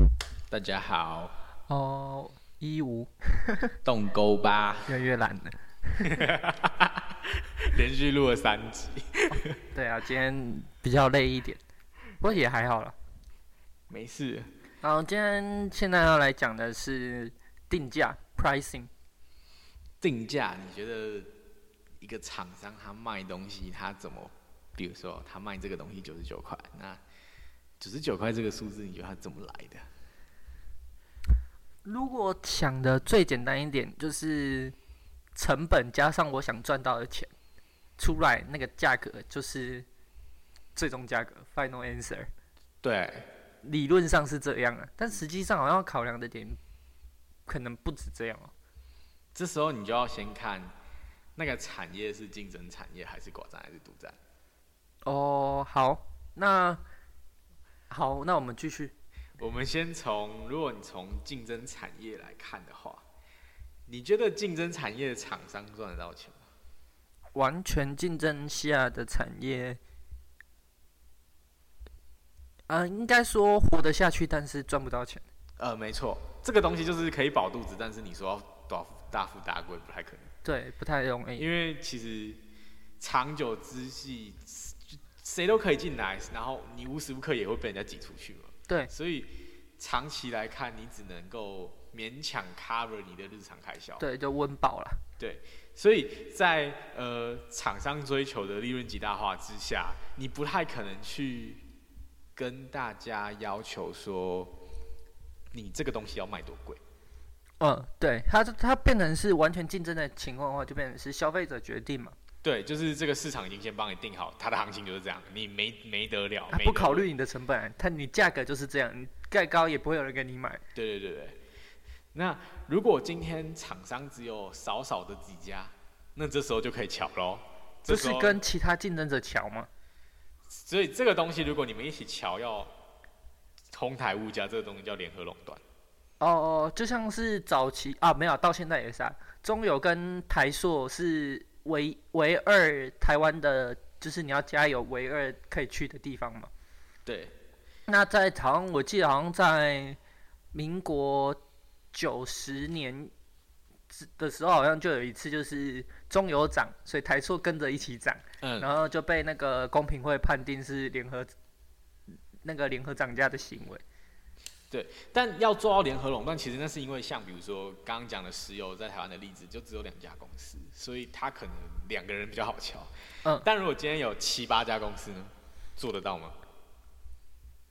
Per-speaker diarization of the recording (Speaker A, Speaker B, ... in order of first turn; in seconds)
Speaker A: 0.5-1.3, 3.8-4.9, 6.0-9.6, 13.9-14.5, 20.0-21.3, 22.0-27.0, 27.8-29.8, 42.8-43.3, 49.3-50.7, 51.4-54.2, 59.4-63.0, 63.9-66.4, 75.6-80.3, 81.4-82.4, 83.0-94.0, 95.2-101.7, 102.3-104.6, 105.5-106.8, 112.4-117.1, 120.7-121.4, 122.1-128.4, 130.5-132.7, 133.7-135.6, 147.0-147.3, 158.4-158.7, 164.7-176.4
Speaker B: 1.7-3.8, 4.9-6.2, 9.7-11.6, 12.2-12.9, 14.8-18.9, 31.8-34.7, 35.3-37.3, 38.0-39.9, 40.8-42.3, 43.6-46.6, 47.5-48.5, 55.0-56.8, 57.9-58.9, 67.3-69.8, 72.7-75.2, 80.4-81.5, 94.0-95.0, 107.6-112.2, 116.5-120.6, 127.9-129.7, 136.2-146.5, 147.9-150.0, 150.5-151.4, 151.9-153.1, 153.9-161.3, 162.4-163.8